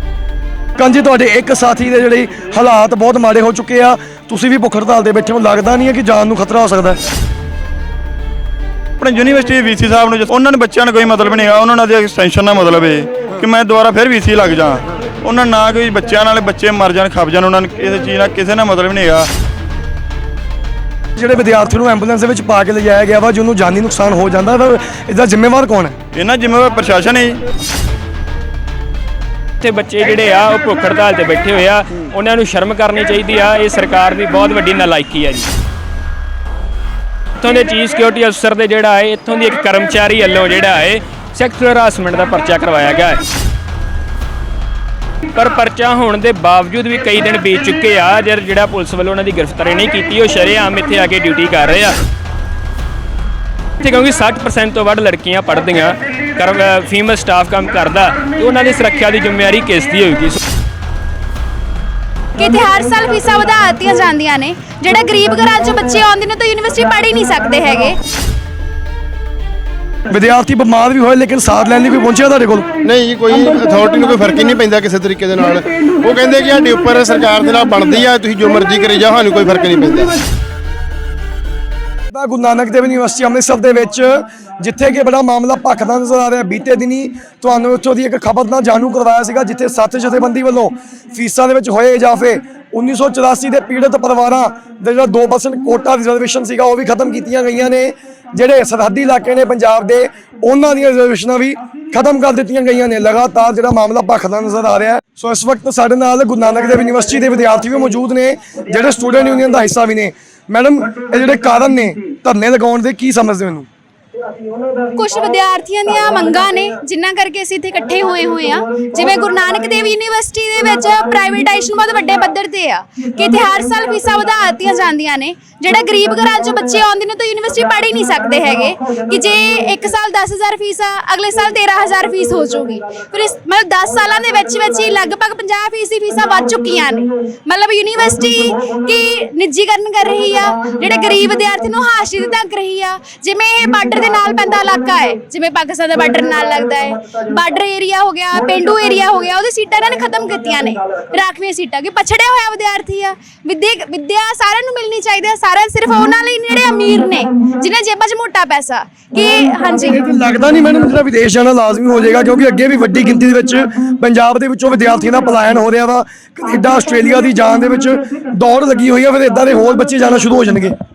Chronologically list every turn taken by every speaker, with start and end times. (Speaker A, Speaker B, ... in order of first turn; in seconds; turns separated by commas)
Speaker A: 0.8-7.0, Speaker B: 9.0-19.3, Speaker A: 21.2-26.0, Speaker B: 26.1-27.4, Speaker C: 29.6-35.5, Speaker C: 37.4-43.2, Speaker C: 45.4-52.0, Speaker C: 53.8-60.4, Speaker D: 62.4-68.0, Speaker A: 70.1-72.7, Speaker E: 72.8-80.2, Speaker A: 82.1-113.7, Speaker D: 115.0-160.0, Speaker A: 159.8-170.7